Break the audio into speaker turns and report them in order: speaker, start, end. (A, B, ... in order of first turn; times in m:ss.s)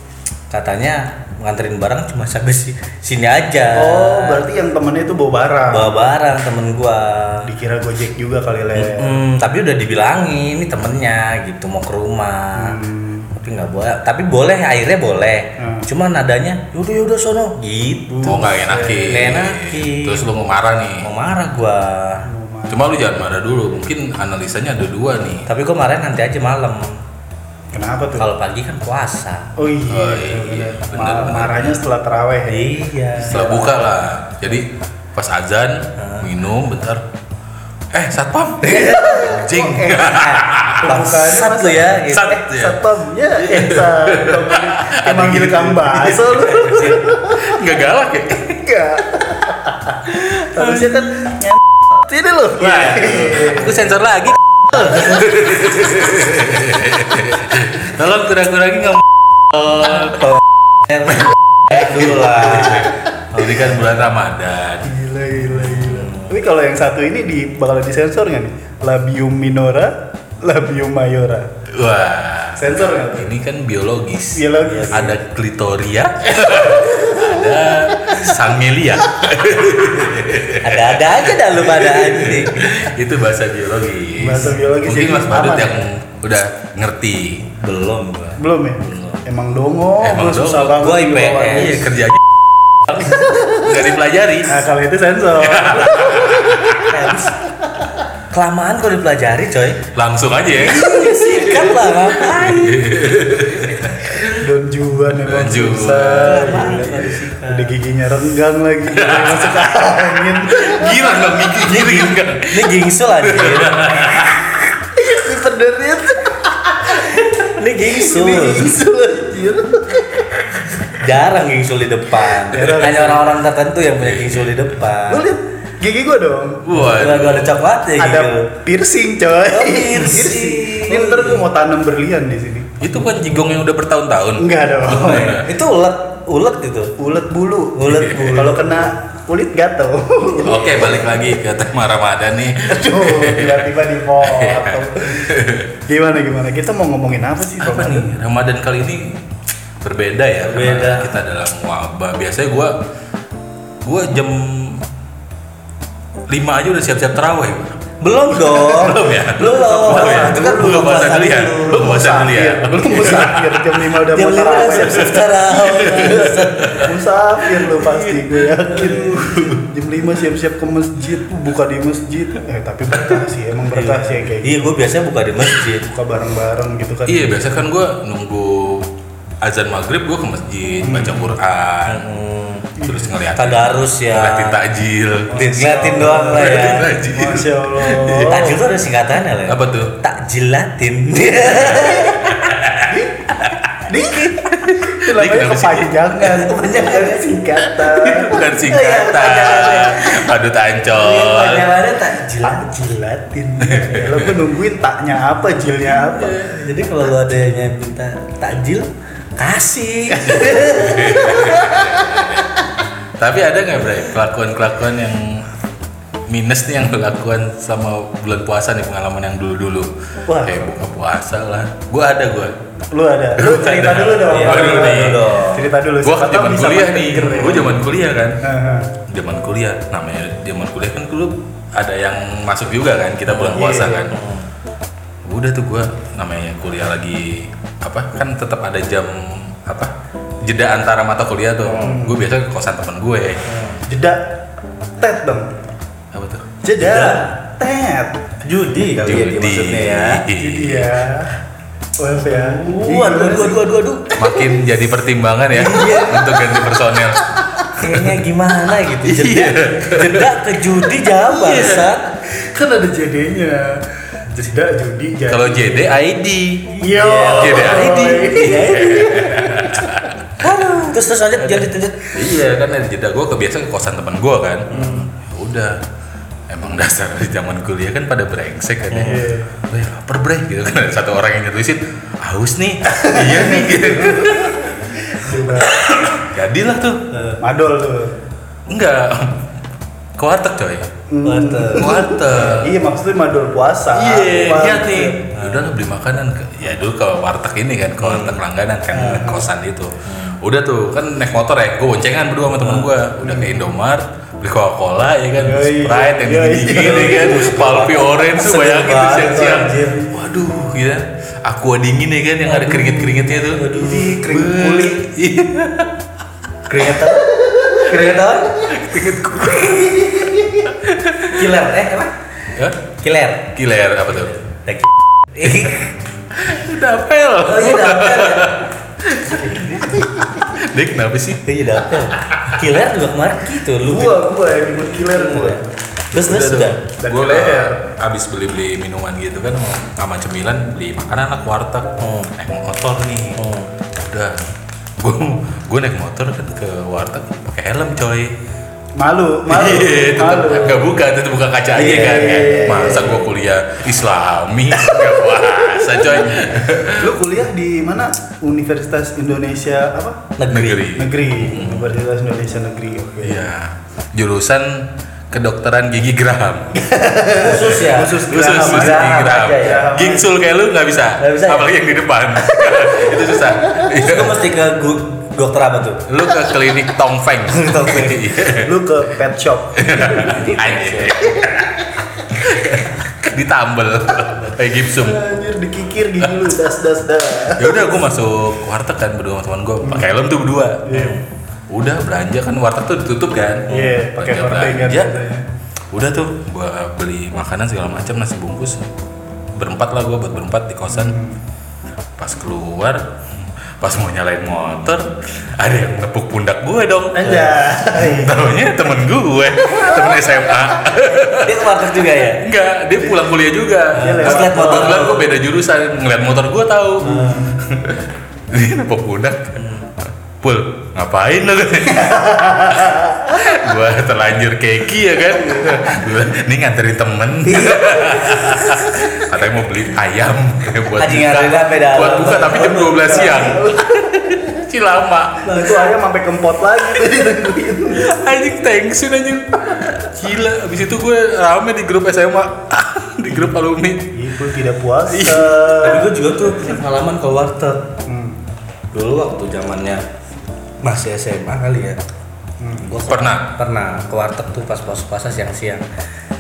0:00.5-0:04.5 A
0:03.7-0:06.0 B
0:05.7-0:07.5 A
0:07.4-0:09.2 B
0:08.8-0:12.8 A
0:12.6-0:13.3 B
0:13.3-0:18.5 A
0:15.6-0:15.9 B
0:18.1-0:19.2 B
0:18.2-0:21.1 C
0:19.1-0:20.3 A
0:21.0-0:22.3 A
0:22.3-0:22.9 B
0:22.7-0:25.5 C
0:25.5-0:27.0 A
0:27.7-0:28.3 B
0:28.2-0:29.5 A
0:29.6-0:32.8 B
0:29.9-0:31.8 C
0:32.5-0:33.8 A
0:33.3-0:37.0 C
0:36.0-0:36.2 A
0:37.9-0:41.1 C
0:38.6-0:39.4 A
0:38.9-0:40.2 B
0:40.0-0:42.4 A
0:40.8-0:47.6 B
0:41.9-0:42.8 C
0:43.4-0:48.6 C
0:48.6-0:53.8 B
0:50.2-0:51.1 C
0:52.6-1:00.4 C
1:00.9-1:05.0 C
1:01.8-1:02.9 A
1:04.8-1:11.5 B
1:11.7-1:27.6 C
1:12.6-1:13.4 B
1:14.3-1:15.2 B
1:16.9-1:17.3 B
1:20.6-1:22.9 A
1:24.2-1:25.9 B
1:27.6-1:29.1 A
1:28.4-1:32.0 B
1:30.0-1:32.2 C
1:30.8-1:31.9 A
1:32.9-1:33.7 B
1:32.9-1:34.6 C
1:34.5-1:37.9 B
1:35.4-1:36.9 C
1:36.8-1:37.4 A
1:38.3-1:39.8 A
1:39.9-1:44.4 C
1:40.5-1:42.9 A
1:44.3-1:51.3 B
1:45.2-1:46.9 C
1:46.0-1:47.8 A
1:48.9-1:54.5 C
1:51.6-1:54.3 A
1:54.9-2:00.6 B
1:57.2-1:58.8 A
2:00.9-2:05.3 A
2:02.4-2:03.2 B
2:02.6-2:03.1 C
2:04.0-2:04.6 C
2:05.1-2:06.7 B
2:06.6-2:07.6 C
2:06.7-2:08.5 A
2:08.0-2:12.8 B
2:09.5-2:11.4 A
2:12.8-2:15.5 C
2:14.4-2:15.4 B
2:14.9-2:17.0 A
2:17.0-2:21.0 B
2:17.7-2:18.8 A
2:17.9-2:18.5 C
2:20.4-2:25.7 C
2:22.7-2:28.1 B
2:27.6-2:29.2 C
2:29.8-2:32.8 C
2:30.4-2:31.2 A
2:33.8-2:34.9 C
2:36.3-2:37.8 C
2:38.0-2:42.0 A
2:38.3-2:43.9 C
2:39.4-2:54.7 B
2:44.1-2:46.8 A
2:45.6-2:46.9 C
2:47.6-2:49.6 C
2:48.8-2:49.1 A
2:53.7-2:55.9 A
2:55.8-2:57.6 B
2:57.1-2:58.9 C
2:59.4-3:02.2 C
3:00.8-3:01.4 B
3:01.9-3:02.7 A
3:02.8-3:08.6 C
3:02.8-3:03.1 B
3:03.4-3:04.6 A
3:05.3-3:06.9 A
3:05.3-3:08.6 B
3:08.2-3:12.6 A
3:09.5-3:10.0 C
3:11.8-3:13.0 C
3:12.9-3:13.3 B
3:13.8-3:18.5 B
3:14.4-3:15.9 C
3:16.3-3:22.7 A
3:17.9-3:21.7 C
3:22.4-3:26.4 B
3:23.6-3:24.4 C
3:26.0-3:26.4 C
3:26.2-3:32.0 A
3:30.2-3:30.7 B
3:30.3-3:32.6 C
3:33.2-3:35.5 C
3:36.3-3:42.6 C
3:40.3-3:40.7 B
3:42.9-3:47.8 B
3:43.4-3:45.3 C
3:44.3-3:45.7 A
3:46.0-3:48.4 C
3:48.4-3:48.9 B
3:49.1-3:54.2 C
3:53.3-3:54.5 A
3:53.5-3:54.1 B
3:55.3-4:03.5 C
4:01.6-4:02.0 A
4:01.8-4:02.2 B
4:03.5-4:03.8 A
4:03.9-4:04.4 B
4:05.0-4:05.6 B
4:06.1-4:06.5 C
4:06.6-4:08.2 B
4:06.8-4:07.2 A
4:08.4-4:10.2 A
4:09.0-4:11.0 C
4:10.4-4:11.3 B
4:12.0-4:13.6 B
4:12.2-4:14.2 A
4:14.2-4:18.2 C
4:15.5-4:16.4 A
4:15.7-4:16.6 B
4:17.7-4:22.1 A
4:19.0-4:20.5 C
4:21.3-4:21.9 C
4:22.2-4:25.9 B
4:25.3-4:30.3 C
4:26.8-4:29.2 A
4:26.8-4:30.0 B
4:30.4-4:32.2 A
4:31.4-4:35.8 C
4:34.7-4:35.0 A
4:34.7-4:35.1 B
4:36.5-4:44.7 C
4:38.9-4:39.2 A
4:39.0-4:39.6 B
4:42.9-4:45.8 B
4:45.5-4:47.0 C
4:47.1-4:47.4 A
4:47.4-4:48.2 B
4:48.7-4:49.5 C
4:50.2-4:50.9 C
4:51.1-4:55.2 B
4:51.2-4:52.0 A
4:51.8-4:52.8 C
4:53.9-5:15.9 C
4:55.3-4:55.7 A
4:58.0-4:58.4 A
4:58.9-4:59.5 B
5:00.1-5:00.4 A
5:03.2-5:03.6 B
5:05.4-5:07.5 B
5:06.7-5:10.0 A
5:08.9-5:10.1 B
5:12.4-5:14.3 A
5:13.7-5:15.0 B
5:16.7-5:18.7 A
5:17.3-5:18.0 B
5:18.6-5:20.1 C
5:19.4-5:20.7 A
5:20.6-5:21.4 C
5:21.2-5:22.1 A
5:22.8-5:23.5 A
5:23.5-5:24.4 C
5:24.4-5:25.9 A
5:25.4-5:25.7 C
5:26.3-5:31.4 C
5:27.4-5:28.6 A
5:29.3-5:30.1 A
5:31.4-5:34.3 A
5:33.8-5:35.8 B
5:35.1-5:35.6 A
5:36.1-5:36.8 A
5:36.1-5:43.4 C
5:37.0-5:37.8 B
5:42.0-5:42.3 A
5:43.4-5:43.7 A
5:44.0-5:44.5 C
5:45.0-5:48.3 C
5:49.0-5:50.9 B
5:49.5-5:57.2 C
5:51.8-5:53.2 A
5:51.8-5:53.2 B
5:57.0-6:00.3 B
6:00.4-6:00.9 A
6:00.5-6:01.9 C
6:01.0-6:03.5 B
6:03.2-6:06.8 C
6:06.7-6:10.3 B
6:07.3-6:09.9 A
6:08.3-6:14.4 C
6:11.2-6:11.7 A
6:13.8-6:16.1 A
6:16.1-6:18.7 C
6:17.5-6:18.3 A
6:18.6-6:20.4 B
6:19.8-6:25.2 C
6:20.1-6:21.3 A
6:21.2-6:21.9 B
6:24.9-6:28.0 B
6:27.6-6:30.9 C
6:29.8-6:30.1 B
6:30.8-6:31.2 B
6:30.9-6:31.2 A
6:31.7-6:35.1 C
6:33.7-6:35.5 B
6:35.9-6:38.8 C
6:39.6-6:41.2 C
6:40.9-6:41.4 B
6:42.2-6:43.2 C
6:43.8-6:51.8 C
6:47.2-6:48.4 B
6:49.7-6:50.2 B
6:51.1-6:52.4 A
6:52.4-6:59.7 C
6:54.0-6:55.4 A
6:54.0-6:55.2 B
6:57.0-6:57.5 A
6:57.1-6:57.5 B
7:00.4-7:15.7 C
7:01.9-7:03.4 B
7:05.4-7:05.8 B
7:07.5-7:08.6 A
7:11.0-7:13.5 A
7:12.8-7:14.5 B
7:15.4-7:18.1 B
7:17.9-7:24.2 C
7:24.1-7:26.2 B
7:25.1-7:25.8 C
7:25.8-7:27.9 A
7:28.0-7:28.4 B
7:28.9-7:30.0 A
7:30.8-7:32.0 A
7:32.6-7:32.9 B
7:32.8-7:35.8 A
7:33.1-7:33.5 C